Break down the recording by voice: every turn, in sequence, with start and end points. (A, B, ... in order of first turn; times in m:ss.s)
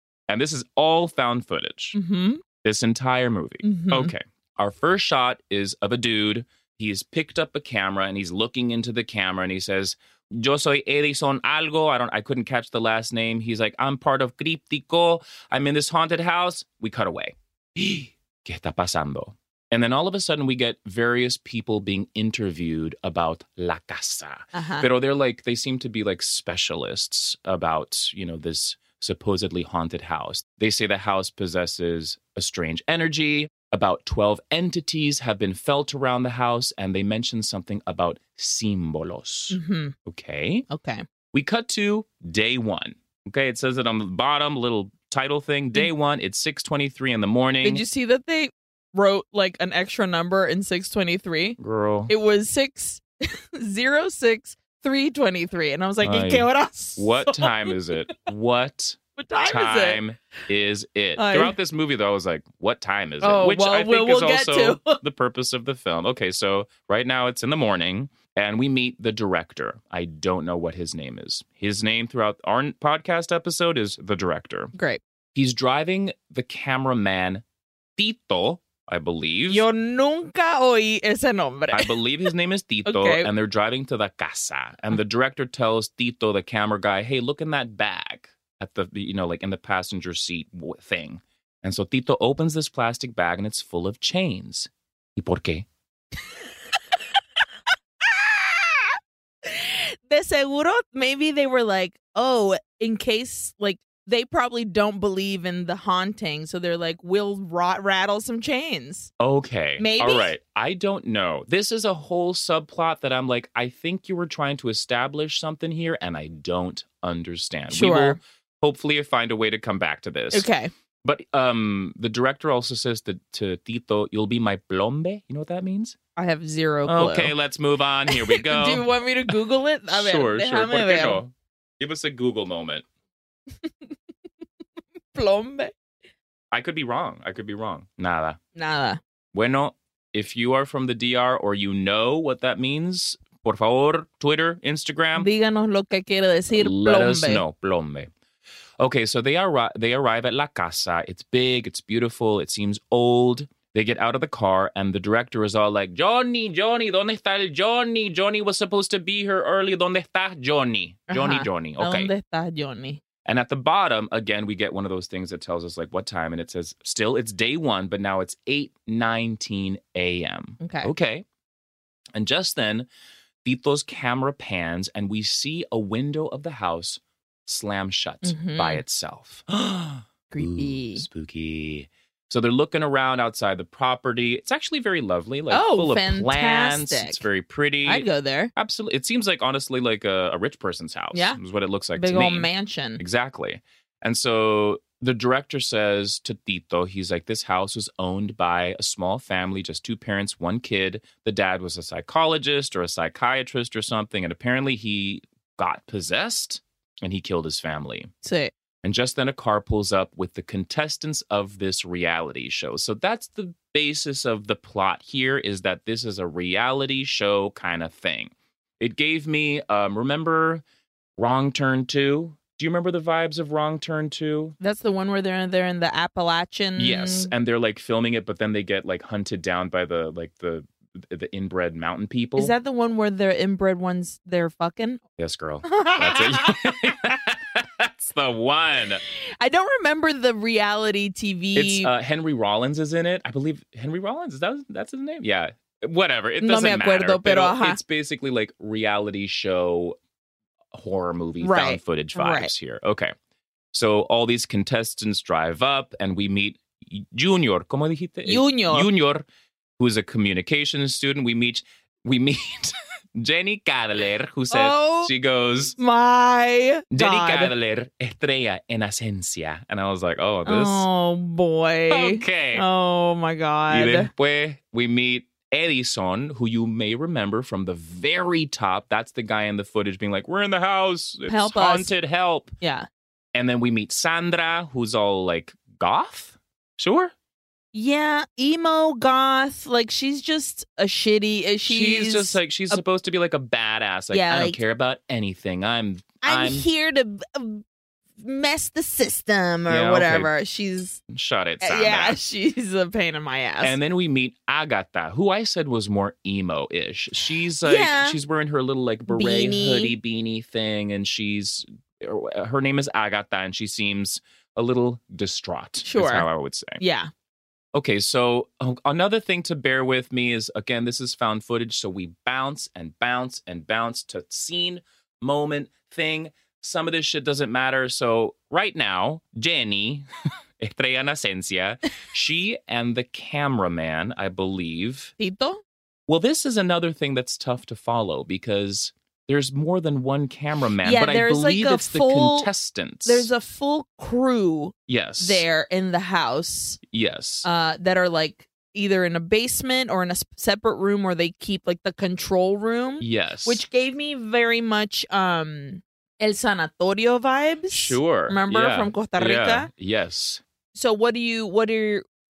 0:00.3-0:02.0 A
0:01.9-0:02.4 B
0:02.6-0:40.7 A
0:03.6-0:04.1 B
0:24.5-0:24.9 B
0:39.5-0:39.9 B
0:40.7-0:41.0 B
0:41.3-0:47.8 A
0:47.6-0:57.7 B
0:51.6-0:52.1 A
0:56.0-1:14.7 A
0:59.2-1:00.0 B
1:01.2-1:01.6 B
1:03.2-1:05.0 B
1:14.8-1:15.0 B
1:15.4-1:17.4 A
1:18.0-1:19.6 A
1:19.5-1:21.9 B
1:21.7-1:35.7 A
1:22.9-1:23.3 B
1:38.1-1:38.9 B
1:39.4-1:49.1 B
1:49.2-2:00.5 A
1:49.8-1:50.3 B
1:57.7-1:58.2 B
2:00.3-2:00.7 B
2:01.0-2:06.0 A
2:06.2-2:07.3 B
2:06.8-2:09.4 A
2:08.1-2:11.2 B
2:09.9-2:12.8 A
2:15.2-2:15.7 B
2:16.5-2:18.4 A
2:18.6-2:19.0 B
2:19.3-2:25.3 A
2:25.2-2:27.4 B
2:26.6-2:28.1 A
2:28.8-2:42.1 A
2:41.1-2:43.0 B
2:43.2-2:51.2 A
2:50.6-2:50.9 B
2:52.2-2:52.9 A
2:53.4-3:28.1 A
2:58.2-2:58.8 B
3:00.3-3:01.1 B
3:05.5-3:07.2 B
3:07.8-3:08.5 B
3:11.1-3:11.4 B
3:12.0-3:13.0 B
3:28.2-3:28.5 B
3:28.8-3:40.6 A
3:41.2-3:44.6 A
3:44.6-3:47.3 B
3:46.8-3:52.5 A
3:52.4-3:55.0 B
3:55.2-3:59.0 A
3:55.7-3:56.6 B
3:59.4-4:01.9 B
4:01.6-4:10.0 A
4:06.4-4:07.8 B
4:10.7-4:13.1 A
4:11.4-4:12.5 B
4:13.7-4:19.3 A
4:18.3-4:18.9 B
4:19.8-4:25.8 A
4:24.5-4:25.1 B
4:25.8-4:27.5 B
4:26.9-4:30.9 A
4:30.5-4:34.1 B
4:31.9-4:32.7 A
4:33.7-4:42.5 A
4:41.3-4:41.9 B
4:42.6-4:42.9 B
4:43.3-4:47.1 A
4:47.7-4:52.8 B
4:51.6-4:56.7 A
4:54.1-4:54.6 B
4:56.2-4:57.6 B
4:58.2-5:01.0 B
4:59.7-5:00.3 A
5:01.1-5:02.2 A
5:01.6-5:03.8 B
5:03.6-5:16.8 A
5:07.6-5:08.2 B
5:09.1-5:10.0 B
5:15.8-5:16.3 B
5:16.8-5:17.1 B
5:17.7-5:30.1 A
5:30.6-5:35.1 A
5:35.2-5:35.6 B
5:36.1-5:43.3 A
5:40.8-5:42.5 B
5:43.0-5:46.8 B
5:44.9-5:45.4 A
5:46.9-5:47.5 A
5:47.4-5:59.7 B
5:53.0-5:53.6 A
5:57.7-6:00.4 A
6:00.8-6:02.0 B